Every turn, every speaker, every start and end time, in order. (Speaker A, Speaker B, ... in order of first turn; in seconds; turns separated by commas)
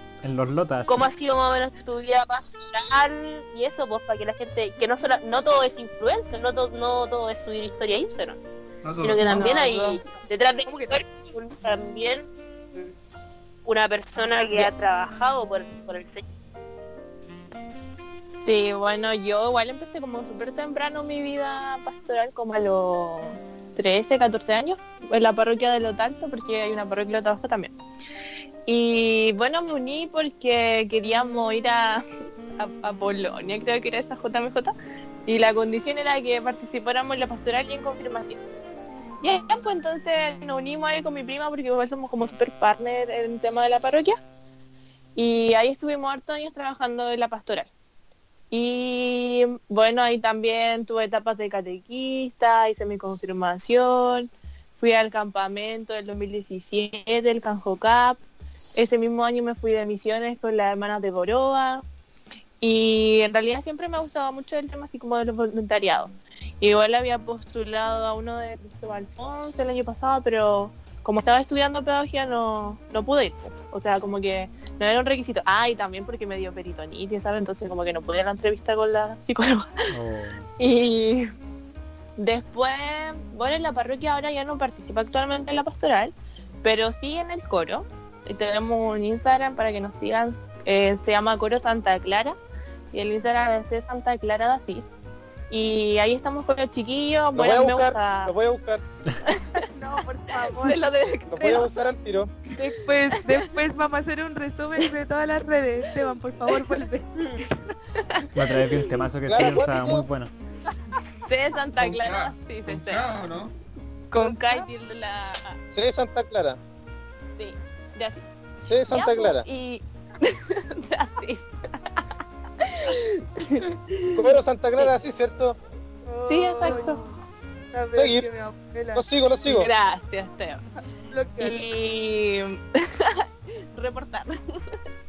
Speaker A: 0.2-1.1, Speaker B: 0.9-8.4, Speaker C: 8.8-9.6, Speaker B: 9.0-12.9, Speaker D: 9.3-9.7, Speaker E: 9.4-11.0, Speaker B: 13.6-16.2, Speaker D: 18.4-27.7, Speaker D: 28.7-32.0, Speaker D: 32.6-34.7, Speaker D: 35.2-38.4, Speaker D: 39.2-44.2, Speaker D: 45.1-47.7, Speaker D: 48.5-58.2, Speaker D: 58.8-61.8, Speaker D: 62.6-79.9, Speaker A: 79.9-80.4, Speaker D: 80.6-81.3, Speaker D: 82.2-92.4, Speaker D: 92.9-94.9, Speaker D: 95.5-98.3, Speaker F: 97.3-98.8, Speaker D: 99.2-99.7, Speaker E: 99.7-100.8, Speaker D: 100.3-101.7, Speaker F: 101.3-102.3, Speaker E: 102.6-107.1, Speaker D: 103.1-103.5, Speaker D: 106.5-106.8, Speaker B: 107.2-107.4, Speaker D: 107.4-109.0, Speaker A: 108.3-110.3, Speaker F: 109.2-110.1, Speaker D: 111.2-113.1, Speaker C: 111.8-113.5, Speaker D: 114.1-115.6, Speaker E: 114.2-114.6, Speaker F: 115.7-116.6, Speaker D: 117.4-118.2, Speaker F: 118.7-119.5, Speaker D: 118.9-122.1, Speaker D: 122.6-124.9, Speaker F: 124.1-125.6, Speaker E: 126.0-127.1, Speaker D: 126.2-127.1, Speaker E: 127.7-129.0, Speaker F: 127.9-128.3, Speaker F: 128.9-129.7, Speaker D: 129.4-130.6, Speaker E: 131.1-131.7, Speaker D: 131.4-134.8